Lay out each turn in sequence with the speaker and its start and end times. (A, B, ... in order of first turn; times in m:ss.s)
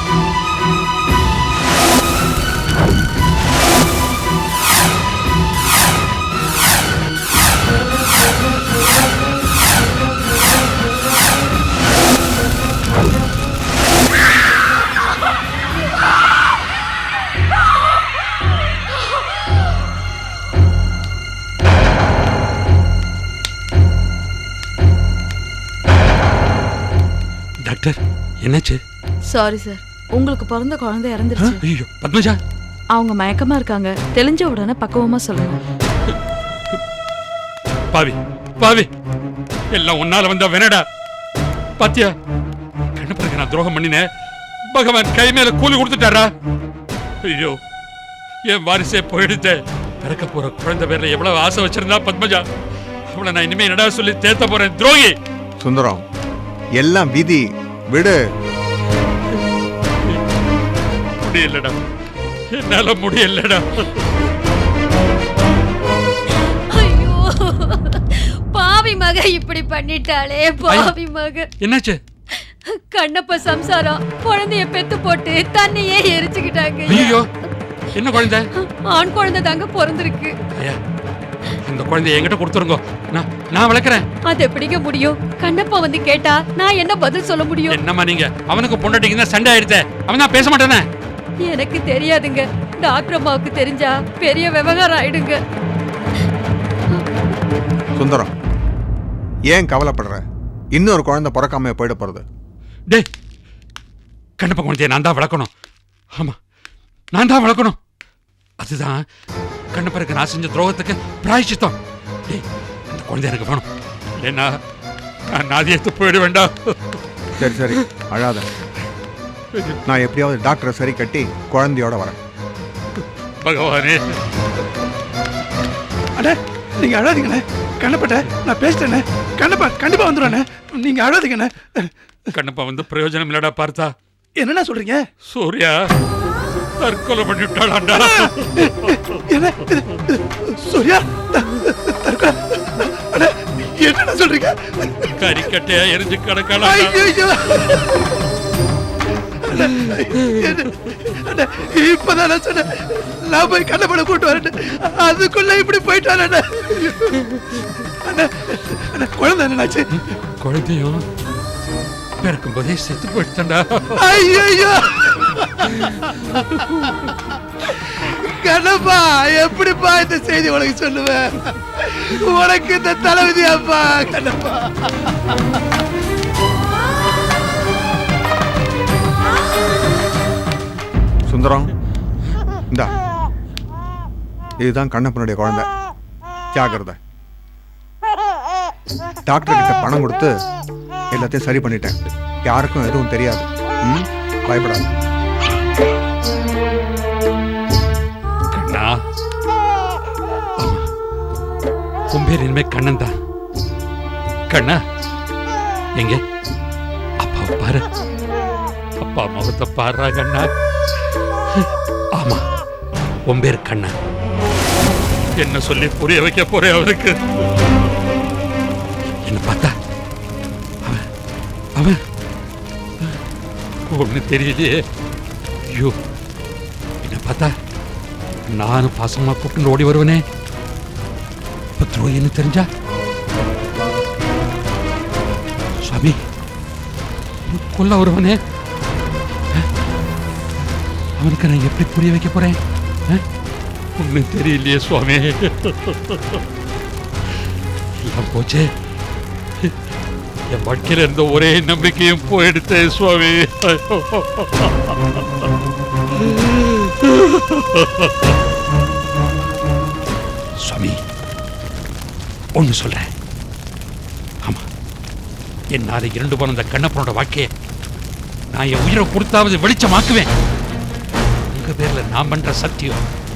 0:27.6-0:28.8 A
0:29.3-0:31.5 B
0:31.4-0:32.4 A
0:33.0-0:35.5 B
0:37.9-0:38.9 A
0:39.7-0:40.8 A
0:41.8-0:42.1 A
0:43.0-0:44.1 A
0:44.7-0:46.3 A
0:47.2-0:47.6 A
0:48.5-0:52.4 A
0:53.1-0:55.2 A
0:55.6-0:56.0 C
0:56.8-0:58.2 C
1:01.2-1:01.8 A
1:02.5-1:04.0 A
1:06.7-1:11.5 D
1:10.7-1:10.9 A
1:11.6-1:12.0 A
1:12.4-1:17.2 D
1:16.9-1:17.3 A
1:17.9-1:18.5 A
1:18.6-1:20.3 D
1:21.6-1:24.1 A
1:24.3-1:27.8 D
1:27.7-1:30.9 A
1:31.5-1:35.4 D
1:38.0-1:38.3 C
1:39.5-1:40.2 C
1:40.8-1:42.2 C
1:44.4-1:45.5 A
1:47.1-1:47.8 A
1:48.6-1:49.0 A
1:49.7-1:51.8 A
1:52.3-1:53.7 A
1:54.2-1:54.6 A
1:55.3-1:57.0 A
1:57.4-1:58.5 C
1:59.6-1:59.8 A
1:59.9-2:02.2 C
2:03.4-2:04.2 A
2:06.2-2:11.9 E
2:12.3-2:13.9 A
2:14.4-2:15.0 E
2:15.3-2:15.9 A
2:16.8-2:18.5 A
2:18.3-2:25.1 E
2:25.2-2:27.1 A
2:26.6-2:28.0 E
2:29.5-2:37.1 E
2:38.0-2:39.9 E
2:40.0-2:41.0 A
2:42.2-2:44.5 A
2:44.0-2:45.9 E
2:45.8-2:47.1 A
2:48.1-2:54.9 E
3:01.3-3:01.7 C
3:04.6-3:05.7 C
3:06.5-3:07.0 C
3:09.3-3:10.3 C
3:11.1-3:12.0 C
3:12.5-3:14.9 C
3:18.5-3:19.0 A
3:20.6-3:20.9 A
3:22.1-3:23.1 A
3:24.5-3:24.8 A
3:27.2-3:27.8 A
3:29.0-3:30.5 A
3:31.6-3:32.4 A
3:33.3-3:33.9 A
3:35.4-3:37.1 A
3:39.2-3:39.7 A
3:43.9-3:44.8 A
3:47.0-3:47.5 A
3:48.5-3:50.2 A
3:51.8-3:52.7 A
3:55.8-3:56.2 A
3:57.5-3:58.4 A
4:01.2-4:02.6 A
4:04.0-4:06.4 A
4:08.0-4:08.7 A
4:10.5-4:15.5 A
4:16.2-4:18.3 A
4:20.6-4:21.0 A
4:22.6-4:23.1 A
4:25.7-4:27.5 A
4:28.5-4:30.3 A
4:31.5-4:33.0 A